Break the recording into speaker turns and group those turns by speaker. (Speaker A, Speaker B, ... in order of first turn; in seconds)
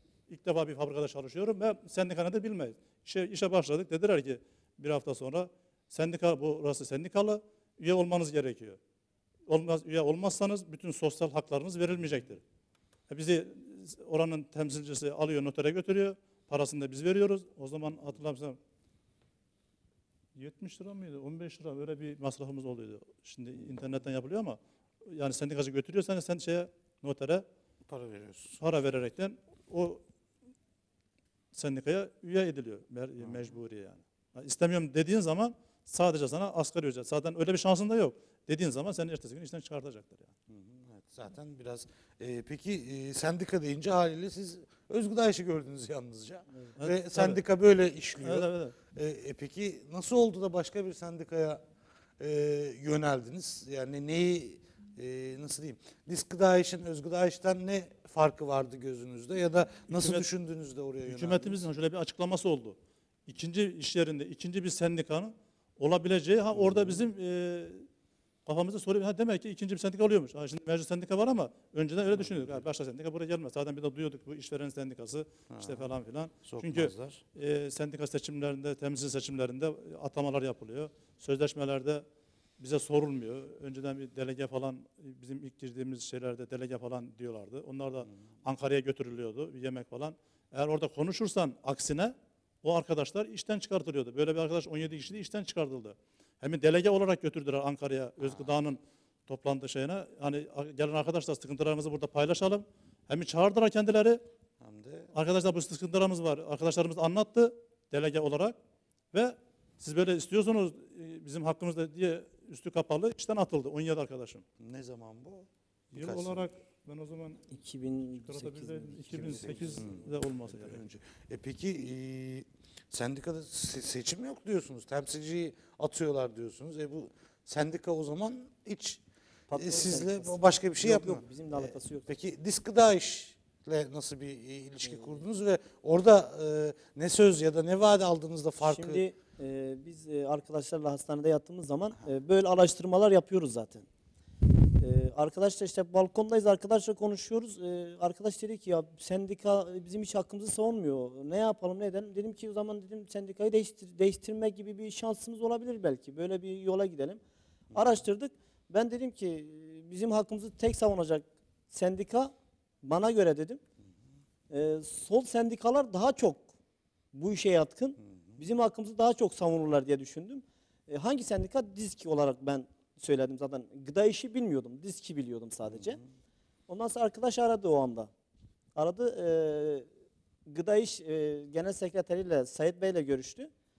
Speaker A: 0.3-8.8, 9.5-12.4, 13.1-18.6, 20.3-27.4, 28.6-30.0, 31.5-40.3, 46.8-47.4, 48.2-48.7, 59.9-60.3, 61.0-67.9, 68.5-82.0, 82.6-104.2, 105.1-108.5, 109.1-114.4, 115.9-117.5, 118.2-120.8
Speaker B: 27.9-28.6, 33.2-33.5, 40.5-51.6, 52.2-61.7, 66.5-67.0, 75.5-75.9, 76.4-77.2, 98.2-98.5, 104.6-105.1, 114.6-116.5, 119.4-139.0
Speaker C: 117.5-119.8, 129.5-132.1, 134.9-135.2, 138.6-143.9, 144.8-157.2, 157.7-163.6, 164.5-166.5, 167.1-176.0, 176.7-178.1, 178.8-179.9, 180.4-183.5